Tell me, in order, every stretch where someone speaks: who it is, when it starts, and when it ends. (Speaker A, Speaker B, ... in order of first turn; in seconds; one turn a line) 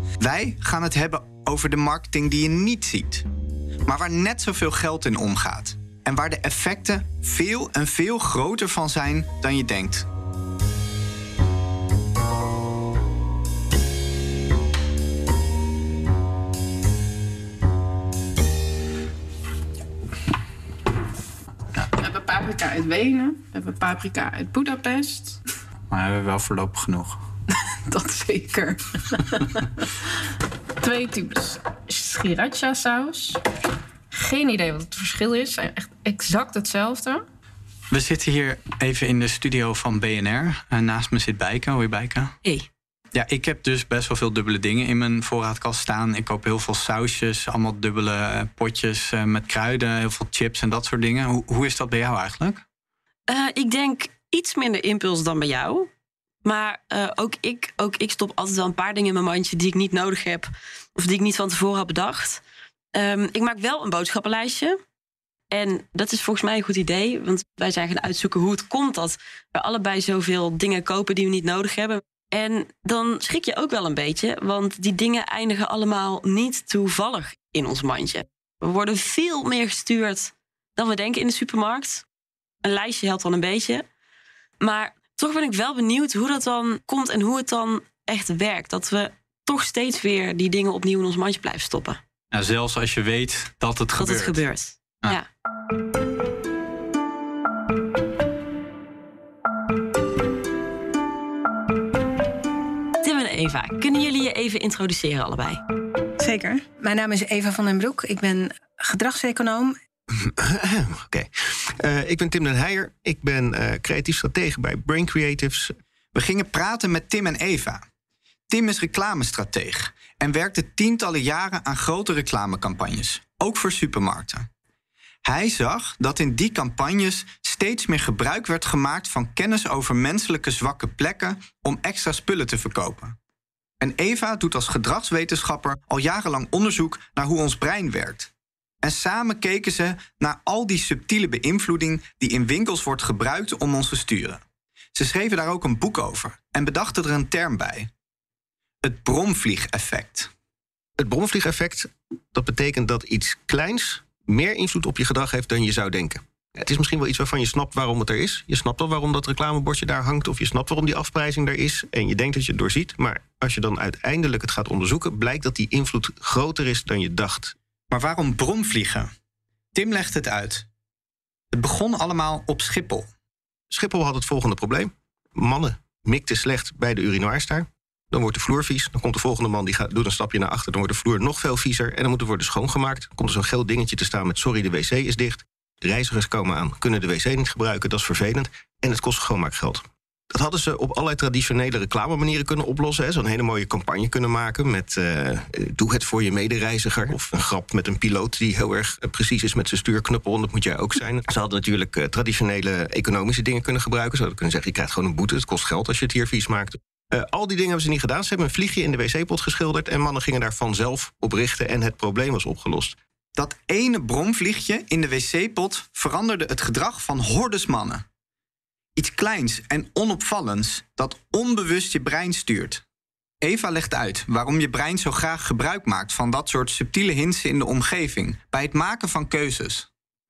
Speaker A: 0.2-3.2
Speaker A: 3.9-10.1
Speaker B: 22.0-25.4
Speaker B: 27.9-29.6
Speaker B: 30.8-33.4
Speaker B: 34.1-37.2
Speaker A: 37.9-42.3
Speaker A: 43.1-52.6
Speaker C: 53.3-55.9
Speaker C: 56.4-62.4
Speaker C: 62.9-64.8
Speaker C: 65.5-82.0
Speaker C: 82.6-83.8
Speaker C: 84.6-92.0
Speaker A: 92.3-94.4
Speaker C: 94.0-95.2
Speaker C: 103.0-105.6
Speaker D: 106.2-109.8
Speaker E: 110.2-115.7
Speaker A: 116.1-117.8
Speaker A: 118.5-124.5
Speaker A: 125.2-133.2
Speaker A: 133.8-138.3
Speaker A: 138.8-144.4
Speaker A: 144.9-147.9
Speaker A: 148.8-150.3
Speaker E: 151.0-167.6
Speaker A: 167.9-169.1
Speaker A: 169.7-170.7
Speaker A: 171.5-173.1
Speaker E: 173.7-212.9
Speaker A: 213.3-218.0
Speaker A: 218.9-222.8
Speaker A: 223.4-229.9